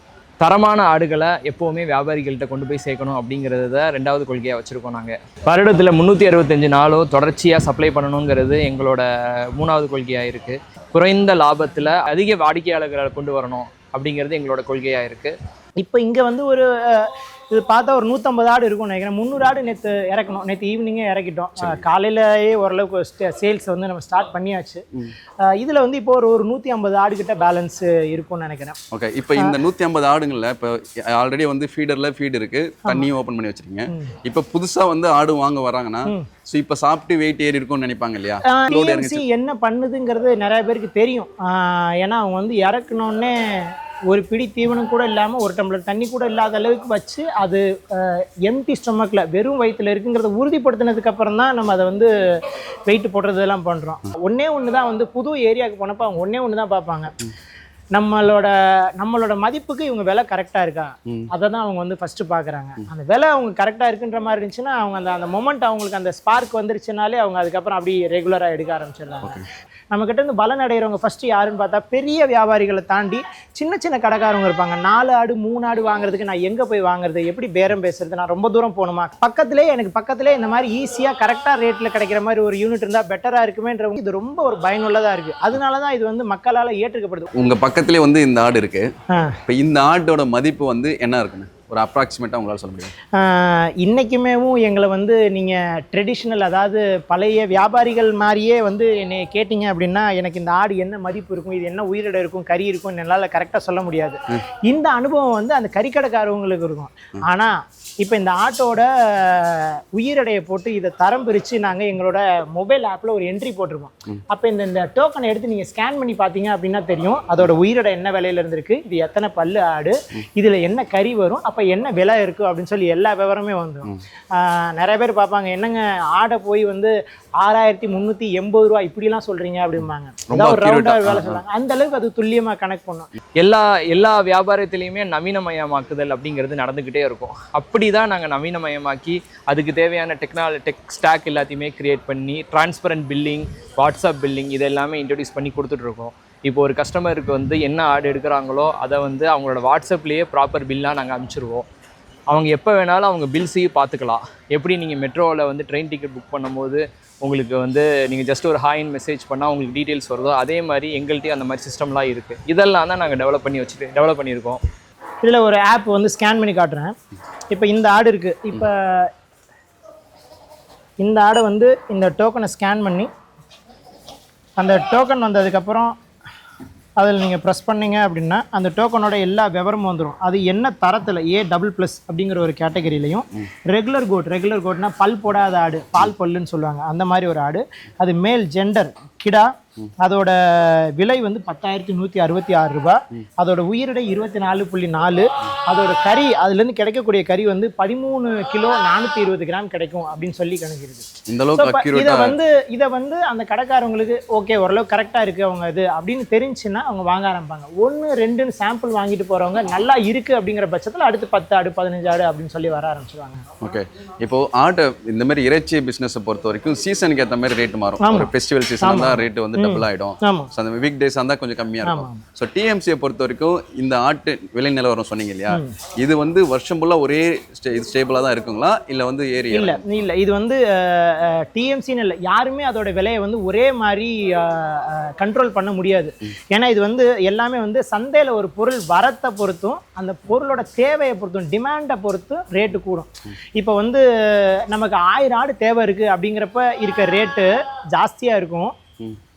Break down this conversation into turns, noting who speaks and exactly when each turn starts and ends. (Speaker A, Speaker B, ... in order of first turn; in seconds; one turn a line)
Speaker A: 0.4-15.3
Speaker B: 15.8-24.8
Speaker B: 25.4-28.8
Speaker C: 28.9-39.2
Speaker B: 38.4-52.1
Speaker B: 52.9-57.1
Speaker B: 57.9-87.3
Speaker C: 87.3-88.9
Speaker B: 89.1-89.4
Speaker C: 89.5-92.9
Speaker B: 93.1-133.1
Speaker C: 130.3-131.4
Speaker A: 133.4-151.7
Speaker A: 152.3-164.6
Speaker B: 165.2-166.9
Speaker B: 167.5-169.1
Speaker B: 171.0-173.1
Speaker B: 174.6-176.0
Speaker B: 177.0-213.4
Speaker C: 201.3-202.3
Speaker C: 213.6-229.8
Speaker B: 218.0-218.3
Speaker B: 218.8-220.5
Speaker B: 221.8-222.2
Speaker B: 225.5-225.7
Speaker B: 229.5-248.8